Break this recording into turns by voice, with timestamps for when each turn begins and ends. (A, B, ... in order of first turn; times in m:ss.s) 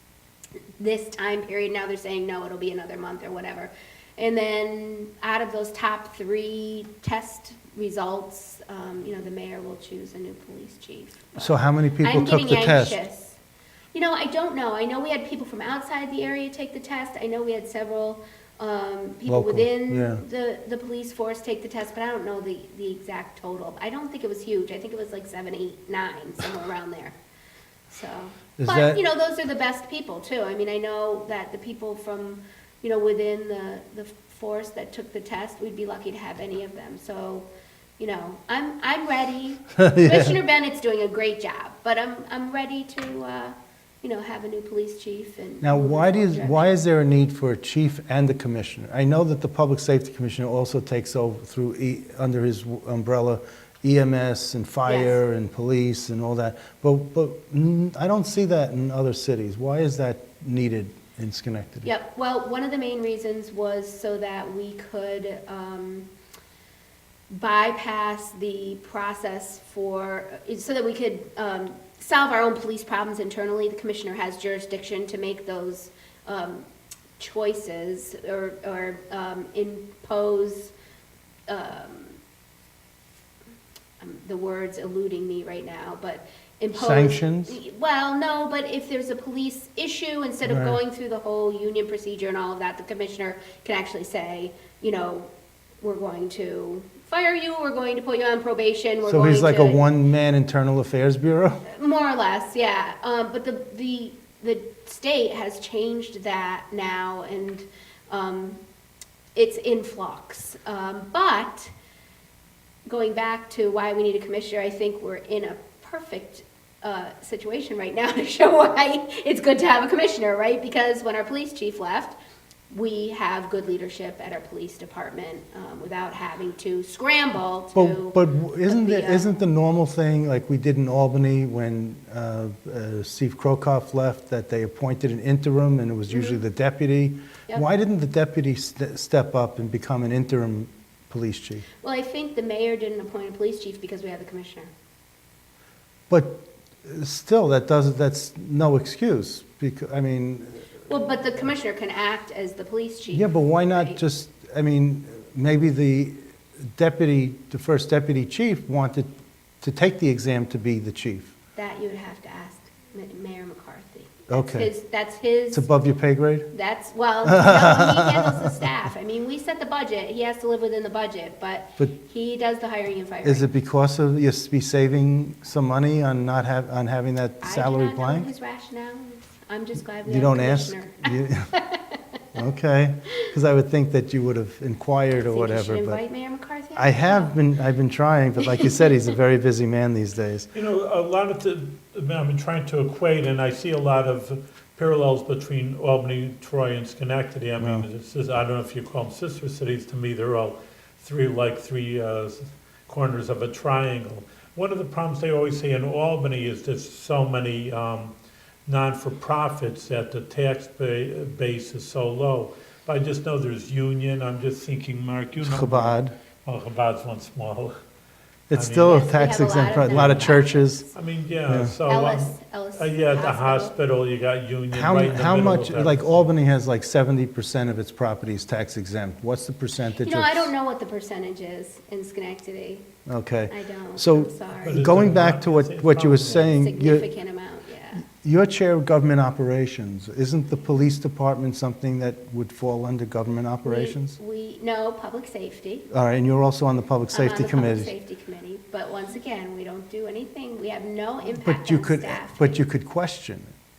0:00.8-0:13.4 A
0:11.4-0:13.0 B
0:13.9-0:27.2 A
0:19.3-0:20.2 B
0:27.9-0:37.5 A
0:28.6-0:29.0 B
0:38.0-0:46.8 A
0:39.8-0:40.4 B
0:45.6-1:01.9 B
0:54.8-0:55.2 A
1:01.8-1:06.1 A
1:07.3-1:16.7 A
1:17.2-1:20.7 A
1:21.5-1:22.2 A
1:24.0-1:35.3 A
1:26.7-1:27.6 B
1:30.4-1:30.8 B
1:35.8-1:39.9 A
1:39.0-1:41.6 B
1:41.6-1:48.6 A
1:49.4-1:51.7 A
1:52.9-2:02.2 A
2:02.7-2:09.4 A
2:07.8-2:21.7 B
2:16.1-2:16.4 A
2:21.8-2:24.7 A
2:26.1-2:30.6 B
2:30.9-2:34.0 A
2:33.1-2:39.1 B
2:39.6-2:41.4 B
2:41.6-2:45.7 A
2:44.3-2:44.7 B
2:45.5-2:46.5 B
2:46.5-2:53.5 A
2:47.3-2:48.5 B
2:53.2-2:58.3 B
2:57.4-3:02.0 A
3:00.0-3:01.5 B
3:02.4-3:06.0 B
3:05.2-3:07.4 A
3:06.8-3:10.5 B
3:10.5-3:28.1 C
3:17.6-3:17.9 B
3:28.7-3:37.7 C
3:35.4-3:36.1 B
3:38.5-3:40.9 B
3:38.5-3:40.4 C
3:38.8-3:40.9 A
3:40.9-3:46.3 C
3:41.5-3:41.7 B
3:41.9-3:43.7 A
3:44.7-3:50.5 B
3:50.0-3:52.8 A
3:53.1-3:57.1 B
3:53.5-3:54.9 A
3:54.6-3:56.6 C
3:56.4-3:58.1 A
3:58.0-4:04.2 B
4:03.6-4:05.9 A
4:05.9-4:07.9 B
4:07.1-4:12.6 A
4:11.4-4:13.5 B